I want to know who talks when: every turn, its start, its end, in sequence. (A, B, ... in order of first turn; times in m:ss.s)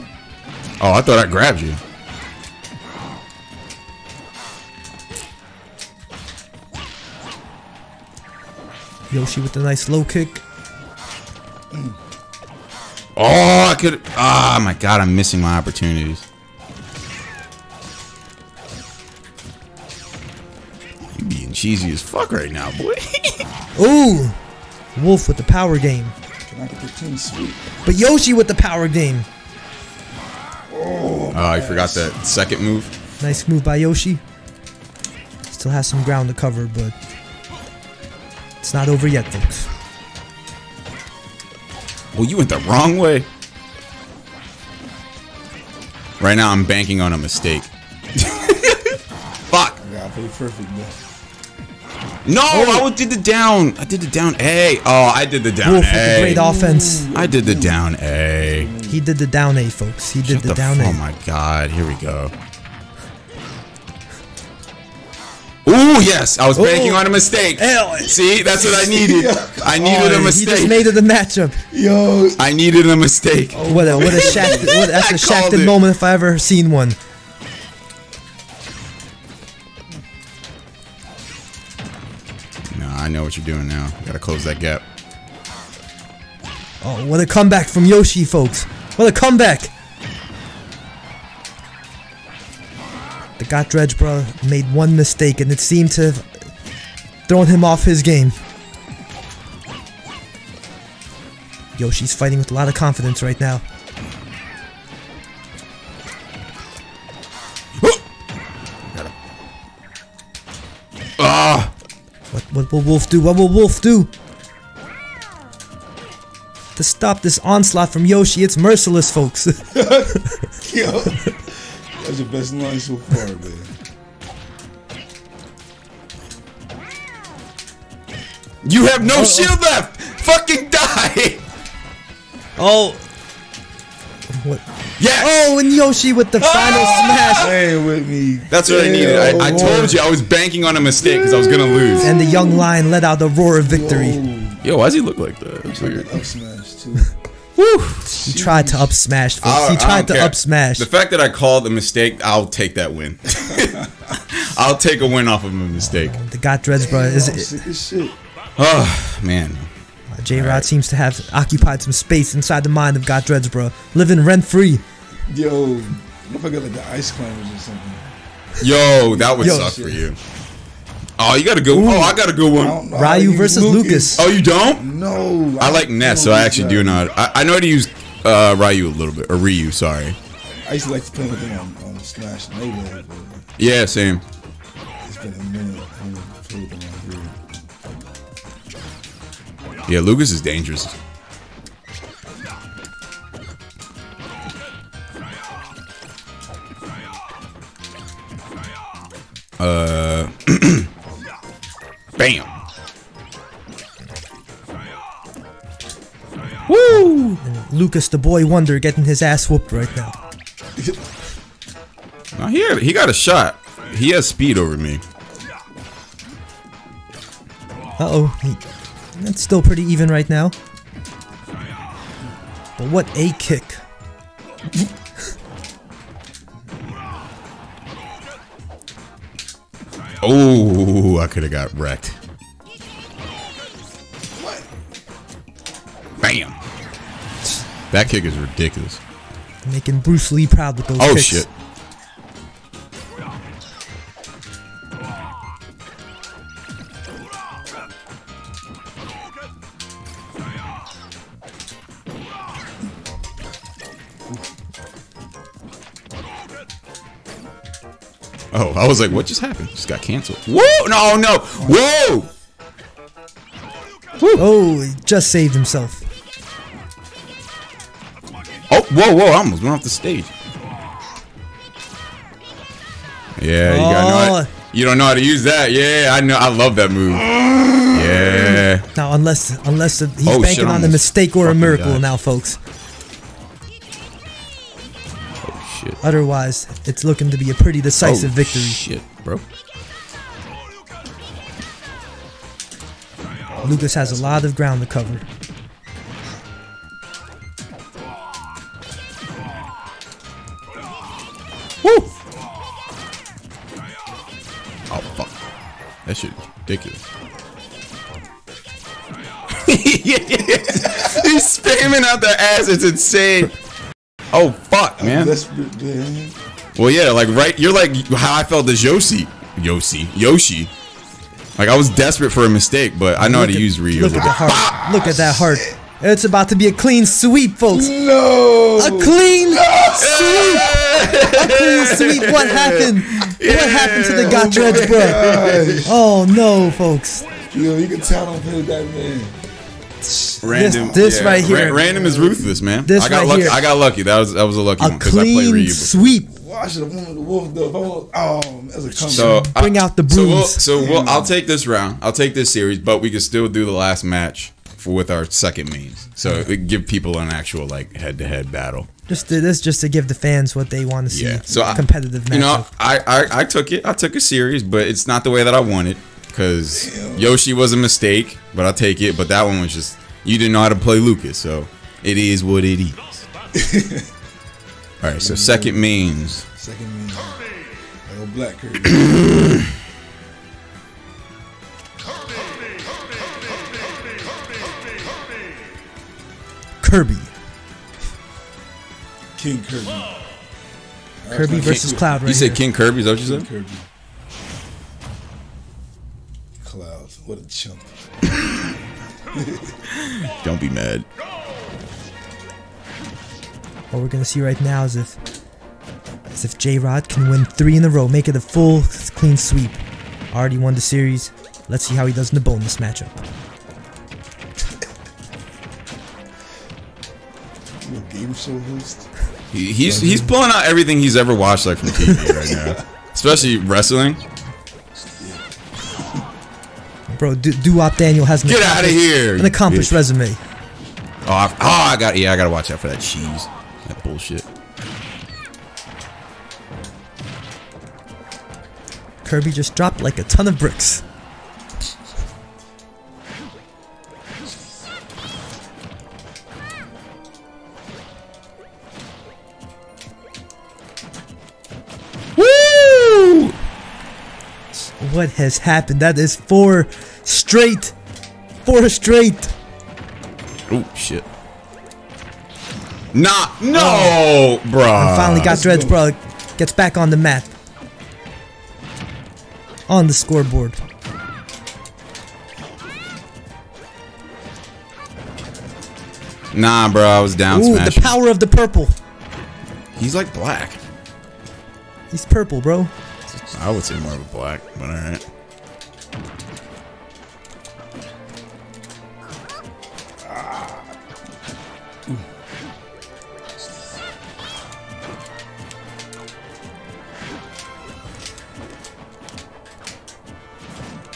0:00.8-0:01.8 A
0:09.1-0:10.4 B
0:13.2-0:16.2 A
0:21.2-0:23.5 A
0:23.8-0:24.4 B
0:25.0-0:26.1 B
0:26.5-0:27.6 C
0:27.8-0:29.3 B
0:30.7-0:32.1 C
0:31.3-0:32.9 A
0:33.2-0:34.2 B
0:35.5-0:37.0 B
0:38.6-0:39.7 B
0:42.1-0:43.3 A
0:46.2-0:49.0 A
0:49.5-0:49.8 A
0:49.8-0:51.0 C
0:52.2-0:56.4 A
0:52.5-0:52.9 B
0:55.6-0:57.1 B
0:56.3-0:57.8 C
0:57.1-0:58.7 A
0:58.4-0:59.0 C
0:58.9-1:01.0 B
1:00.2-1:02.3 A
1:05.6-1:10.8 A
1:06.5-1:08.2 B
1:08.5-1:10.4 C
1:10.1-1:11.6 B
1:11.7-1:12.4 C
1:12.4-1:15.8 A
1:13.5-1:14.8 C
1:13.7-1:17.0 B
1:22.7-1:24.8 A
1:26.8-1:29.7 B
1:33.4-1:36.3 B
1:37.3-1:38.4 B
1:41.8-1:43.6 B
1:51.2-1:51.7 A
1:52.3-1:54.1 B
1:56.8-2:00.0 B
1:59.7-2:03.7 C
2:08.6-2:11.4 A
2:09.0-2:09.6 B
2:12.6-2:13.0 B
2:14.4-2:17.6 B
2:15.0-2:15.5 A
2:16.4-2:17.6 A
2:16.7-2:20.0 C
2:18.5-2:22.1 A
2:21.0-2:22.7 C
2:22.0-2:24.2 B
2:23.6-2:24.6 C
2:24.6-2:26.2 A
2:25.7-2:27.1 C
2:27.6-2:28.2 A
2:28.1-2:30.9 B
2:28.2-2:28.9 C
2:29.4-2:36.2 A
2:35.8-2:37.5 B
2:36.8-2:38.2 C
2:38.6-2:39.7 A
2:40.1-2:44.8 B
2:40.3-2:40.7 A
2:45.3-2:48.1 C
2:48.6-2:50.2 A
2:48.8-2:50.0 C
2:49.4-2:49.7 B
2:51.2-2:52.8 A
2:51.7-2:52.2 B
2:52.5-2:57.1 C
2:52.9-2:54.3 B
2:54.2-2:54.9 A
2:55.6-3:00.2 A
3:00.6-3:03.4 C
3:03.6-3:04.2 A
3:05.0-3:07.4 C
3:09.9-3:11.0 A
3:19.6-3:20.9 A
3:22.2-3:22.5 A
3:26.7-3:27.4 A
3:26.9-3:30.2 B
3:32.4-3:35.0 A
3:38.0-3:38.6 B
3:39.2-3:40.6 B
3:42.8-3:43.8 B
3:50.2-3:52.2 A
3:54.4-3:54.7 C
3:56.2-3:56.6 A
3:57.9-3:59.0 A
3:59.6-4:01.5 B
4:01.0-4:01.5 A
4:18.5-4:22.3 A
4:24.4-4:26.0 B
4:28.7-4:30.3 A
4:33.4-4:38.8 A
4:33.6-4:34.5 B
4:38.9-4:42.6 B
4:40.2-4:42.0 A
4:45.4-4:46.0 A
4:46.0-4:48.8 B
4:48.0-4:49.4 A
4:53.5-4:54.5 C
4:53.6-4:55.2 B
5:04.9-5:05.4 A
5:06.1-5:07.0 A
5:09.6-5:13.6 A
5:14.3-5:15.4 A
5:15.0-5:16.4 C
5:16.8-5:20.7 A
5:21.6-5:25.4 A
5:23.2-5:28.0 B
5:24.8-5:25.6 C
5:27.7-5:30.2 C
5:28.8-5:37.2 B
5:30.0-5:35.8 A
5:34.2-5:36.0 C
5:37.5-5:39.4 C
5:40.0-5:42.0 B
5:40.4-5:46.1 A
5:40.8-5:42.6 C
5:42.8-5:43.6 B
5:44.8-5:46.3 B
5:46.3-5:49.5 C
5:49.1-5:58.9 A
5:49.1-5:50.6 B
5:50.7-5:51.4 C
5:59.1-6:02.7 B
6:01.1-6:13.3 A
6:06.7-6:07.4 C
6:13.6-6:14.1 C
6:15.0-6:16.4 A
6:15.2-6:17.4 C
6:18.1-6:19.1 C
6:19.1-6:19.5 A
6:26.8-6:27.3 B
6:29.4-6:30.1 C
6:31.2-6:32.1 C
6:31.3-6:32.6 B
6:31.5-6:33.5 A
6:33.2-6:33.9 C
6:36.6-6:37.9 C
6:39.3-6:39.8 C
6:40.2-6:41.1 A
6:43.9-6:45.2 B
6:46.3-6:49.8 B
6:50.3-6:53.2 B
6:57.8-6:59.1 C
6:59.5-7:04.2 A
7:02.3-7:02.8 C
7:05.2-7:06.2 C
7:07.1-7:10.4 B
7:08.4-7:10.0 A
7:11.2-7:14.5 A
7:19.2-7:21.0 B
7:32.4-7:33.5 A
7:34.8-7:38.0 B
7:38.6-7:39.5 B
7:40.7-7:41.3 A
7:43.1-7:45.6 A
7:43.7-7:44.2 B
7:45.0-7:47.5 B
7:45.4-7:46.0 C
7:49.9-7:50.8 B
7:56.5-7:58.2 A
7:57.5-7:59.0 B
8:00.0-8:00.8 A
8:02.1-8:02.9 B
8:03.3-8:05.2 A
8:10.2-8:10.8 C